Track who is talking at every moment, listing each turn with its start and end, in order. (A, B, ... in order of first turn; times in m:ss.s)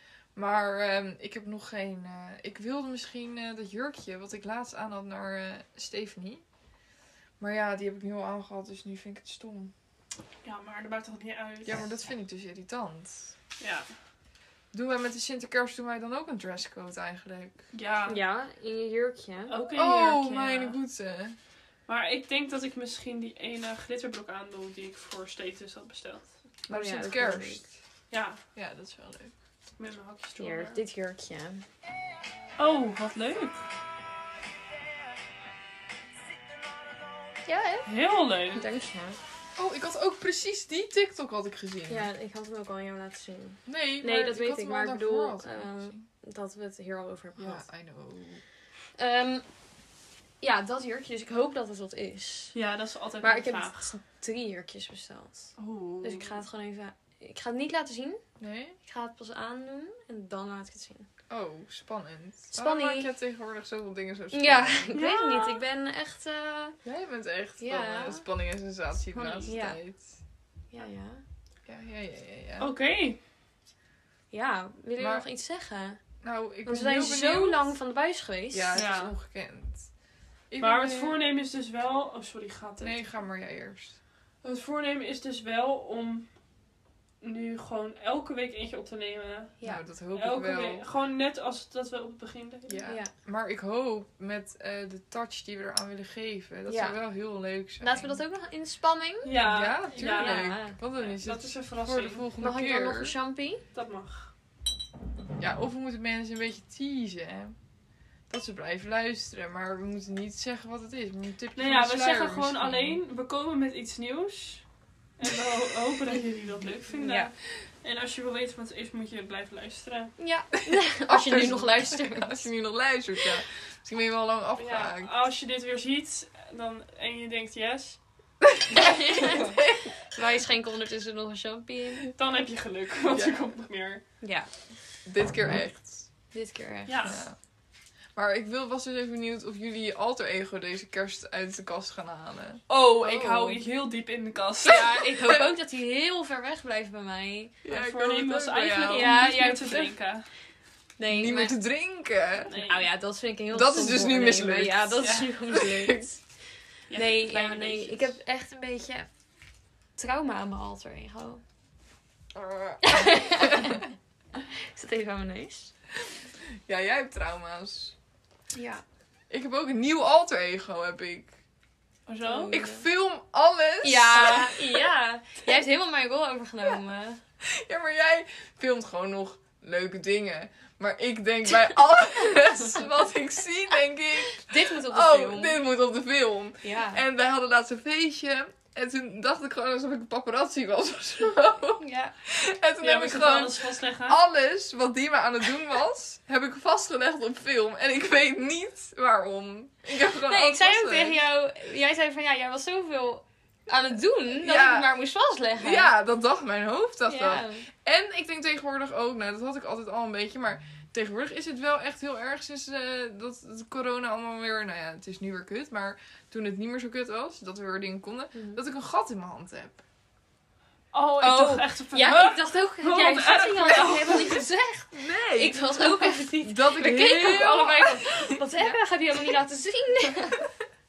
0:00.3-0:06.4 A
0:07.4-0:09.7 A
0:10.4-0:11.8 B
0:11.6-0:13.3 A
0:13.6-0:13.9 B
0:14.7-0:17.6 A
0:17.7-0:18.2 B
0:18.1-0:19.6 C
0:19.5-0:20.6 B
0:19.7-0:21.4 A
0:21.9-0:26.4 B
0:26.7-0:27.6 C
0:26.7-0:27.6 A
0:28.1-0:28.4 B
0:28.5-0:29.3 A
0:29.8-0:30.8 B
0:30.4-0:31.6 C
0:32.6-0:33.6 B
0:37.4-0:37.9 C
0:37.8-0:38.7 B
0:38.5-0:39.2 C
0:39.6-0:42.1 A
0:41.9-0:47.6 C
0:43.7-0:46.0 A
0:47.4-0:48.4 A
0:49.0-0:49.4 C
0:50.4-0:52.5 C
0:52.5-0:53.9 B
0:53.2-0:58.2 C
0:55.6-0:56.4 A
0:58.4-0:58.8 A
0:58.8-1:01.1 C
1:01.3-1:04.9 A
1:02.5-1:03.1 C
1:04.3-1:06.8 C
1:04.9-1:05.6 B
1:06.8-1:10.0 A
1:07.6-1:08.2 C
1:09.1-1:09.8 C
1:10.7-1:11.2 C
1:11.6-1:12.7 A
1:12.6-1:13.2 B
1:14.3-1:16.0 C
1:15.0-1:15.2 A
1:16.2-1:17.7 A
1:16.6-1:18.8 C
1:18.5-1:19.9 A
1:18.7-1:19.1 B
1:20.5-1:21.2 A
1:20.6-1:23.1 B
1:22.8-1:24.0 A
1:24.4-1:26.3 B
1:27.2-1:29.6 B
1:29.6-1:30.9 A
1:30.1-1:32.9 B
1:32.7-1:38.2 A
1:32.8-1:33.1 C
1:36.7-1:37.0 C
1:37.8-1:39.4 C
1:39.2-1:42.2 B
1:39.4-1:43.1 A
1:39.9-1:40.8 C
1:42.4-1:43.6 C
1:43.7-1:44.3 B
1:45.4-1:47.6 A
1:48.3-1:53.0 A
1:51.6-1:54.6 B
1:55.2-2:00.1 B
1:57.0-1:57.3 C
2:00.2-2:02.5 C
2:01.1-2:05.1 A
2:04.6-2:08.0 B
2:08.6-2:09.9 A
2:08.7-2:12.1 C
2:09.2-2:09.6 B
2:12.1-2:14.0 B
2:13.1-2:13.5 A
2:14.2-2:14.5 C
2:15.0-2:16.1 A
2:16.3-2:17.2 C
2:16.9-2:17.2 B
2:17.0-2:17.4 A
2:18.1-2:23.5 A
2:22.7-2:25.0 B
2:23.2-2:23.6 C
2:24.6-2:27.6 C
2:25.2-2:25.5 A
2:27.6-2:29.2 A
2:27.7-2:30.3 B
2:28.8-2:30.0 C
2:31.0-2:31.6 C
2:31.1-2:32.5 A
2:32.4-2:36.2 C
2:32.5-2:32.8 B
2:33.5-2:36.0 A
2:35.0-2:35.3 B
2:36.9-2:38.1 B
2:36.9-2:39.1 C
2:40.0-2:41.4 C
2:42.3-2:43.8 A
2:42.8-2:43.8 C
2:44.5-2:45.7 C
2:46.6-2:47.9 A
2:48.5-2:48.8 C
2:49.3-2:51.3 A
2:52.1-2:52.5 B
2:52.2-2:52.9 C
2:52.5-2:54.8 A
2:53.8-2:57.2 C
2:57.4-3:21.2 A
3:04.3-3:05.6 C
3:06.6-3:07.0 C
3:11.8-3:12.1 C
3:12.8-3:14.2 B
3:20.1-3:25.9 C
3:24.4-3:24.9 A
3:25.6-3:39.8 A
3:27.1-3:27.7 C
3:38.3-3:38.6 C
3:40.9-3:44.4 B
3:41.2-3:50.5 C
3:42.0-3:42.3 A
3:44.9-3:48.8 A